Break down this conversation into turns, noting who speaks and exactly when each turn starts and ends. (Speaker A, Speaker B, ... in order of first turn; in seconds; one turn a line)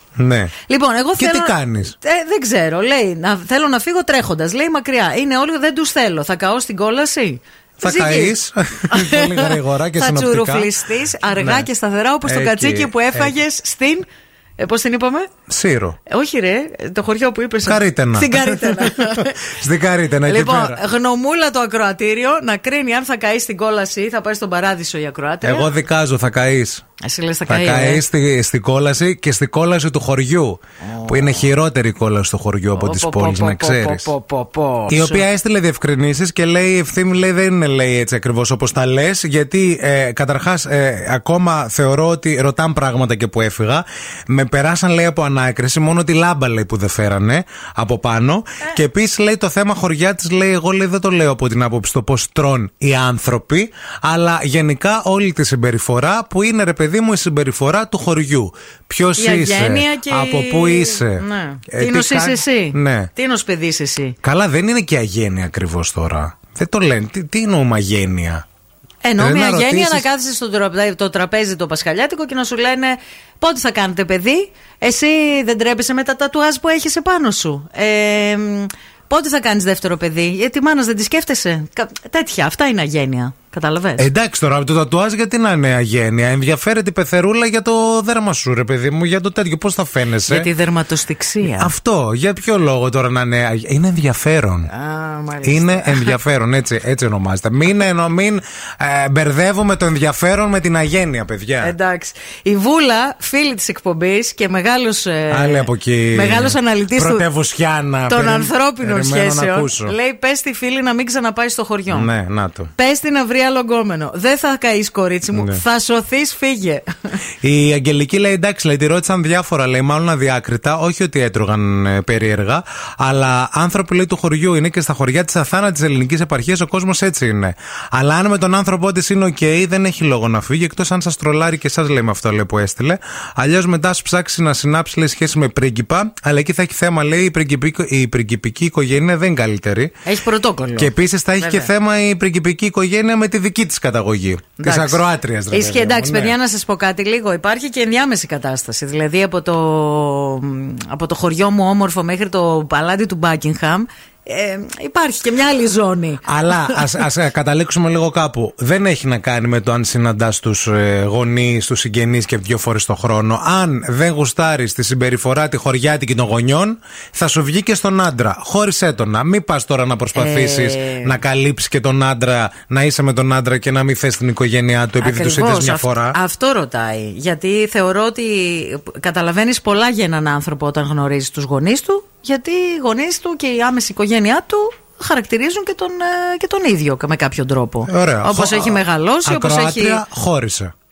Speaker A: 0.2-0.5
Speaker B: 0.7-8.3
Speaker A: 1.2-1.9
Speaker A: 7.8-11.7
Speaker B: 8.9-15.3
Speaker A: 12.2-13.3
Speaker A: 15.5-16.0
Speaker B: 16.1-19.5
Speaker A: 17.6-20.8
Speaker B: 20.2-25.7
Speaker A: 25.4-26.8
Speaker B: 27.0-28.0
Speaker A: 27.5-34.1
Speaker B: 30.8-31.5
Speaker B: 32.8-35.2
Speaker A: 34.9-63.1
Speaker B: 59.2-64.2
Speaker A: 64.2-68.4
Speaker B: 69.0-84.1
Speaker A: 69.2-70.1
Speaker A: 84.0-90.5
Speaker B: 90.3-91.7
Speaker A: 91.4-94.7
Speaker B: 94.7-96.2
Speaker A: 95.4-101.8
Speaker B: 101.6-107.2
Speaker A: 105.3-110.0
Speaker B: 108.1-112.1
Speaker A: 111.9-112.7
Speaker B: 112.8-117.2
Speaker A: 115.3-115.6
Speaker A: 117.4-139.9
Speaker B: 140.1-141.7
Speaker A: 140.8-146.3
Speaker B: 144.6-156.9
Speaker A: 156.2-176.2
Speaker B: 170.1-171.2
Speaker B: 175.0-190.0
Speaker A: 187.9-190.7